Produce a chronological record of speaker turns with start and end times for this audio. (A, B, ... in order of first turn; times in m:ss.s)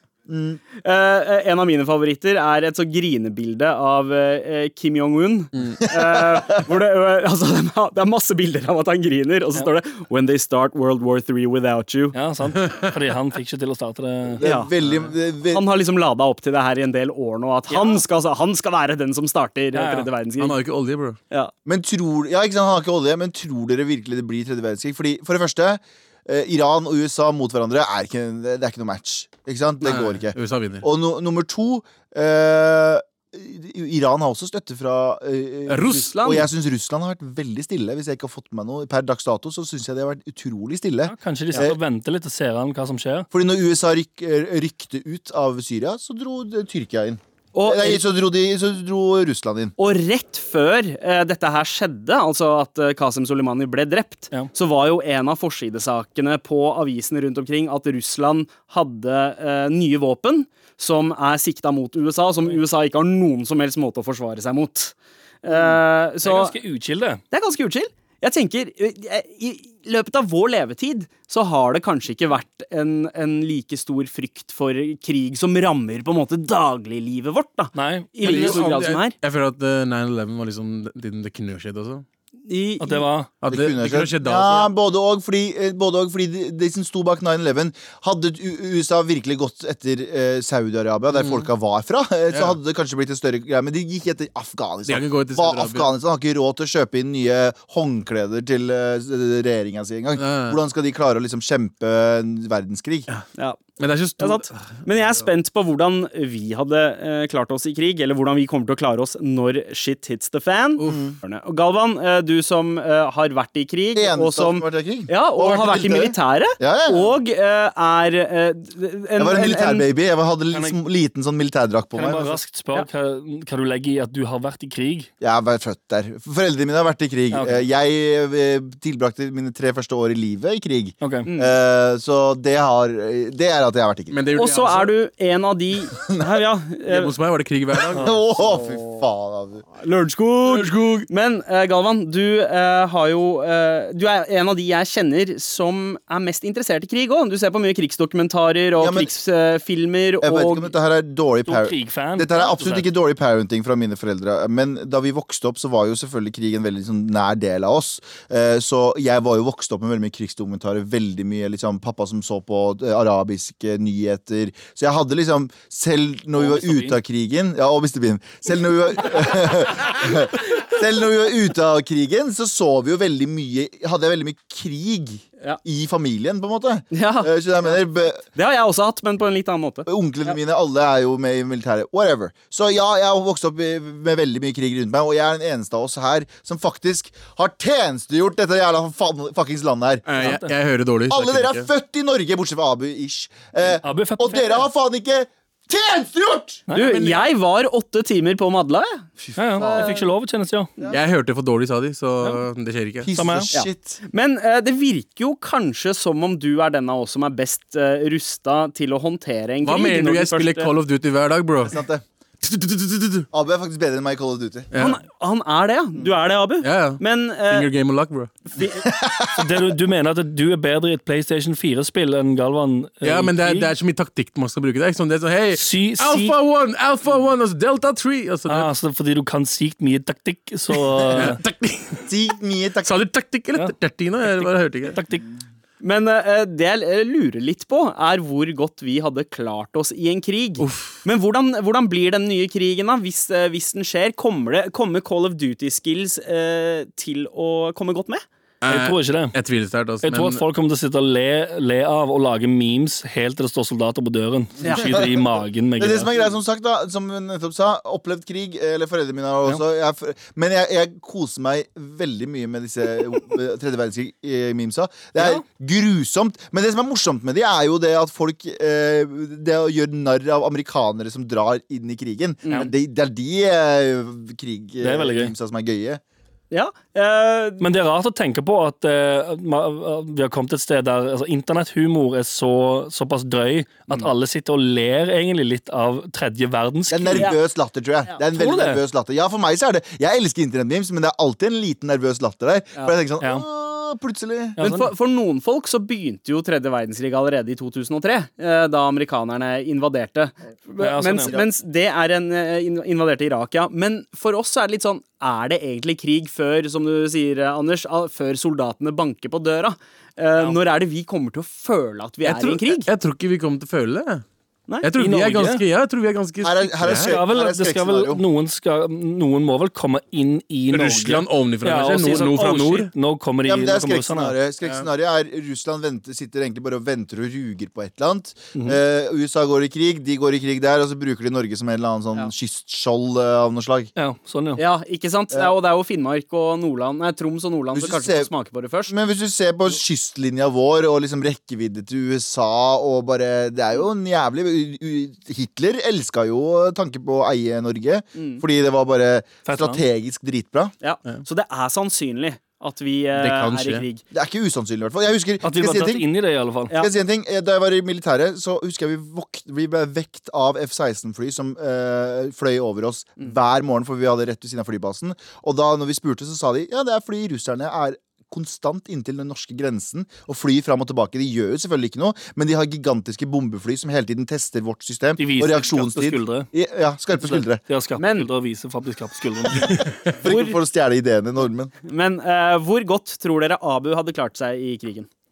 0:00.3-0:00.6 A
0:00.7-0:12.2 B
0:12.1-0:14.5 C
0:14.4-0:15.6 A
0:14.4-0:14.7 B
0:15.5-0:20.6 B
0:17.7-0:18.0 C
0:19.7-0:20.1 C
0:20.4-0:21.2 D
0:21.6-0:41.8 A
0:29.8-0:30.8 D
0:35.7-0:36.1 D
0:36.0-0:36.5 B
0:41.0-0:43.3 C
0:43.3-0:49.7 A
0:47.5-0:48.0 B
0:49.8-1:06.6 B
1:06.2-1:07.2 C
1:07.3-1:19.1 B
1:17.7-1:18.3 C
1:18.2-1:22.0 D
1:22.5-1:23.0 B
1:22.8-1:23.3 C
1:23.4-1:24.7 D
1:23.5-1:43.1 A
1:31.1-1:31.5 D
1:32.3-1:32.6 D
1:34.8-1:35.9 D
1:40.2-1:40.6 D
1:43.4-1:43.6 B
1:43.8-1:45.2 D
1:44.2-1:59.8 B
1:50.8-1:51.1 D
1:50.9-1:51.1 A
1:53.9-1:57.1 A
1:59.2-2:02.4 A
2:00.5-2:00.8 C
2:01.9-2:05.1 C
2:05.2-2:14.2 A
2:07.3-2:07.7 C
2:11.0-2:11.3 C
2:11.2-2:11.6 B
2:14.1-2:14.9 D
2:14.3-2:17.1 B
2:16.9-2:18.1 D
2:17.9-2:19.6 A
2:18.3-2:19.0 B
2:19.8-2:30.7 B
2:20.4-2:21.1 D
2:28.8-2:29.1 A
2:30.2-2:58.2 A
2:31.5-2:32.9 C
2:46.3-2:47.0 C
2:56.9-2:59.8 B
2:59.8-3:10.3 A
3:10.0-3:11.7 D
3:10.2-3:10.5 C
3:11.1-3:16.6 A
3:13.8-3:14.6 C
3:16.7-3:20.0 B
3:16.9-3:17.3 D
3:19.4-3:20.7 C
3:20.9-3:23.1 D
3:23.0-3:24.0 A
3:23.1-3:23.5 C
3:23.5-3:30.7 B
3:29.6-3:31.8 D
3:31.6-3:32.0 A
3:32.4-3:33.3 D
3:33.3-3:34.7 A
3:34.7-3:35.0 D
3:34.8-3:37.7 B
3:36.6-3:38.5 D
3:38.5-3:38.9 B
3:38.9-3:39.3 A
3:39.3-3:43.7 C
3:43.0-3:48.7 D
3:45.5-3:46.4 C
3:48.5-3:51.4 C
3:50.8-3:52.1 D
3:52.1-3:52.9 A
3:52.8-3:55.0 D
3:53.5-3:55.3 C
3:55.8-4:08.2 B
4:00.6-4:01.0 D
4:08.6-4:10.4 D
4:08.6-4:09.3 C
4:10.0-4:16.2 C
4:14.6-4:15.0 B
4:15.8-4:36.0 A
4:34.8-4:35.3 C
4:36.5-4:37.6 B
4:37.6-4:47.4 C
4:46.9-4:54.6 A
4:48.3-4:48.8 C
4:53.2-4:53.4 C
4:54.6-4:54.9 C
4:54.6-5:12.9 B
5:00.8-5:01.4 C
5:12.2-5:14.2 D
5:14.8-5:17.2 D
5:15.0-5:15.6 C
5:16.4-5:18.2 A
5:16.9-5:24.4 C
5:20.7-5:22.9 D
5:22.3-5:22.7 B
5:23.4-5:33.9 A
5:34.0-5:34.6 C
5:34.6-5:38.9 B
5:37.7-5:38.3 A
5:38.9-5:50.7 A
5:48.2-5:48.4 B
5:49.4-5:49.8 C
5:50.8-5:54.0 B
5:53.2-5:53.8 D
5:54.1-5:56.1 A
5:55.4-5:56.8 C
5:56.7-6:17.6 A
6:15.2-6:16.5 C
6:17.2-6:20.1 C
6:18.0-6:18.3 B
6:19.6-6:21.7 A
6:20.2-6:20.6 B
6:21.8-6:25.1 B